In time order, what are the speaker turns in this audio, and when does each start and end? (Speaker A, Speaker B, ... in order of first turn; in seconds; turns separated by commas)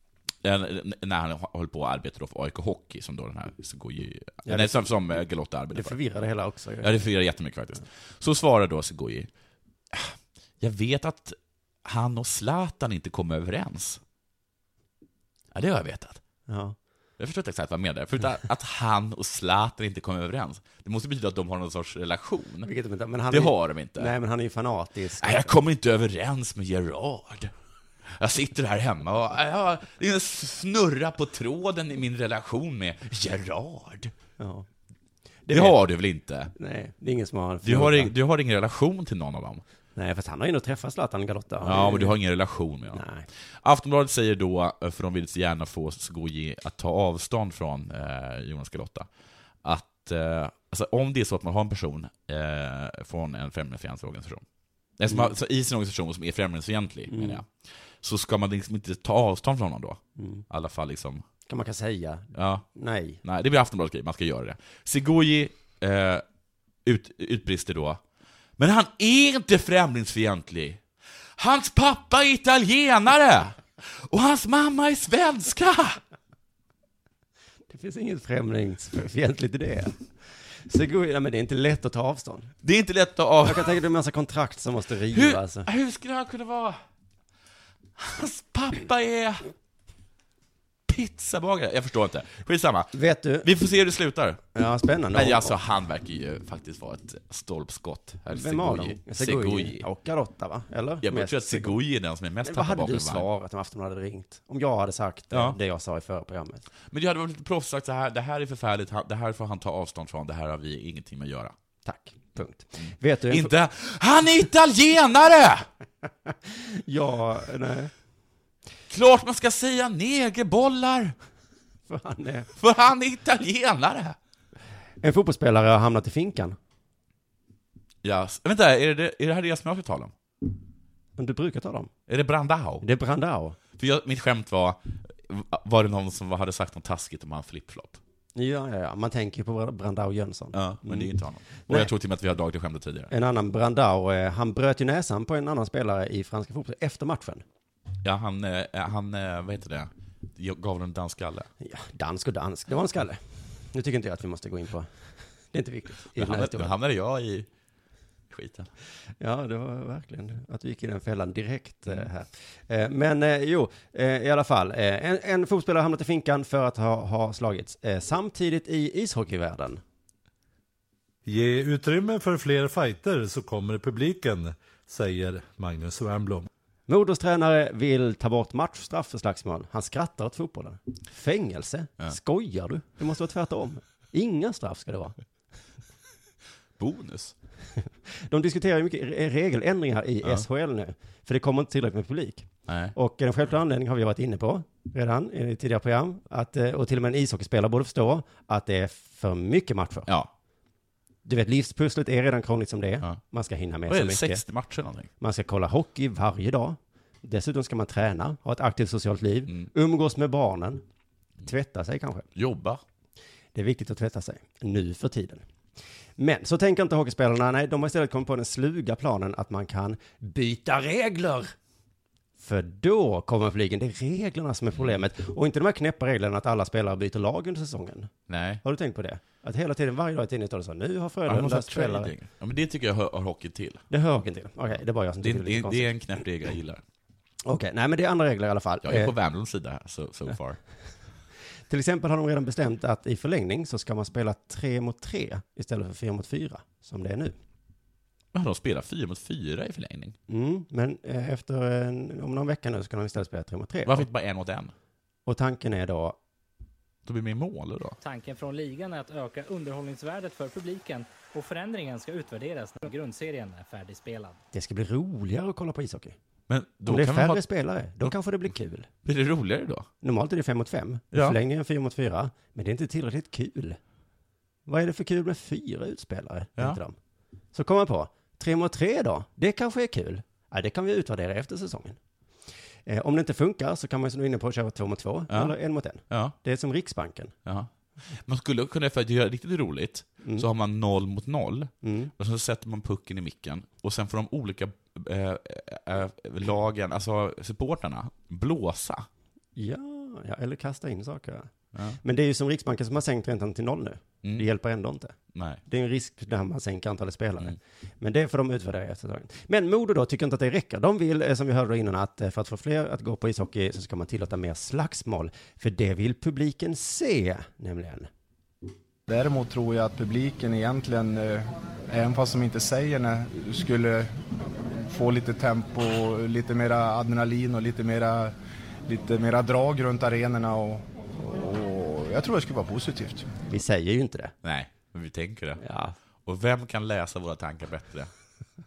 Speaker A: 0.4-6.0, Speaker B: 4.5-4.9, Speaker B: 5.7-7.0, Speaker A: 6.8-9.3, Speaker A: 9.9-14.0, Speaker A: 15.5-16.2, Speaker B: 16.5-16.8, Speaker A: 17.2-22.7, Speaker B: 22.6-25.6, Speaker A: 23.3-24.1, Speaker A: 25.2-27.5, Speaker A: 28.1-34.1, Speaker B: 34.4-34.7, Speaker B: 35.5-35.8, Speaker A: 35.5-36.5, Speaker B: 36.5-38.1, Speaker A: 37.6-39.6, Speaker B: 40.0-42.1, Speaker A: 41.6-43.0, Speaker B: 42.9-43.2, Speaker A: 43.6-49.1, Speaker A: 49.6-54.4, Speaker A: 55.0-57.5, Speaker B: 57.1-57.4, Speaker A: 58.0-61.2, Speaker B: 60.2-60.4, Speaker B: 61.5-63.2, Speaker A: 62.3-62.6, Speaker A: 63.2-66.2, Speaker A: 66.8-68.0, Speaker A: 68.6-70.8, Speaker A: 71.4-76.0, Speaker B: 77.7-80.0, Speaker B: 80.7-82.5, Speaker A: 82.6-83.8, Speaker B: 83.4-85.7, Speaker A: 85.1-86.8, Speaker A: 88.0-89.5, Speaker A: 90.9-94.4, Speaker B: 92.9-93.5, Speaker B: 94.5-95.5, Speaker A: 95.1-99.8, Speaker B: 98.3-101.8, Speaker A: 101.0-103.2, Speaker B: 102.4-106.7, Speaker A: 105.3-105.6, Speaker A: 106.9-111.5, Speaker B: 111.8-113.5, Speaker A: 113.3-115.7, Speaker B: 116.3-117.9, Speaker A: 118.9-121.1, Speaker B: 121.9-122.5, Speaker A: 122.6-124.2, Speaker B: 125.0-126.6, Speaker A: 128.0-130.1, Speaker B: 131.2-131.9, Speaker A: 132.1-132.8, Speaker B: 132.8-133.6, Speaker A: 133.8-138.0, Speaker B: 138.3-141.1, Speaker A: 140.5-143.1, Speaker B: 141.6-141.9, Speaker B: 143.1-147.4, Speaker A: 148.0-151.5, Speaker B: 151.6-154.9, Speaker B: 155.5-156.8, Speaker A: 156.2-157.5, Speaker A: 158.3-158.7, Speaker B: 159.2-169.8, Speaker C: 171.2-176.5, Speaker B: 176.9-185.1, Speaker A: 186.8-187.3, Speaker B: 188.3-200.1, Speaker A: 192.7-192.9, Speaker B: 201.2-204.4, Speaker A: 203.9-205.1, Speaker B: 205.2-210.8, Speaker B: 211.4-212.2, Speaker A: 212.3-212.8, Speaker B: 213.5-215.4, Speaker B: 216.2-221.5, Speaker B: 222.4-232.1, Speaker A: 228.3-228.6, Speaker A: 231.3-233.9, Speaker B: 233.9-235.9, Speaker A: 235.2-236.8, Speaker B: 237.4-239.1, Speaker A: 238.8-240.6, Speaker B: 241.7-247.3, Speaker A: 248.3-250.2, Speaker B: 250.3-254.0, Speaker A: 253.8-254.7, Speaker B: 255.2-256.2, Speaker A: 257.1-258.0, Speaker D: 258.0-264.4, Speaker B: 264.5-266.1, Speaker A: 266.5-267.4, Speaker B: 266.9-268.9, Speaker A: 269.0-269.9, Speaker B: 270.0-273.8, Speaker A: 271.1-271.4, Speaker B: 274.6-276.9, Speaker B: 277.5-282.0, Speaker B: 282.9-287.3, Speaker A: 286.1-286.3, Speaker A: 287.4-299.1, Speaker B: 291.8-292.1, Speaker B: 299.6-301.5, Speaker B: 302.0-318.1, Speaker A: 305.3-305.6, Speaker E: 319.1-324.2, Speaker E: 324.8-328.3, Speaker E: 328.9-333.3, Speaker B: 333.4-334.3, Speaker A: 334.4-335.6, Speaker B: 335.6-335.9, Speaker A: 336.2-338.1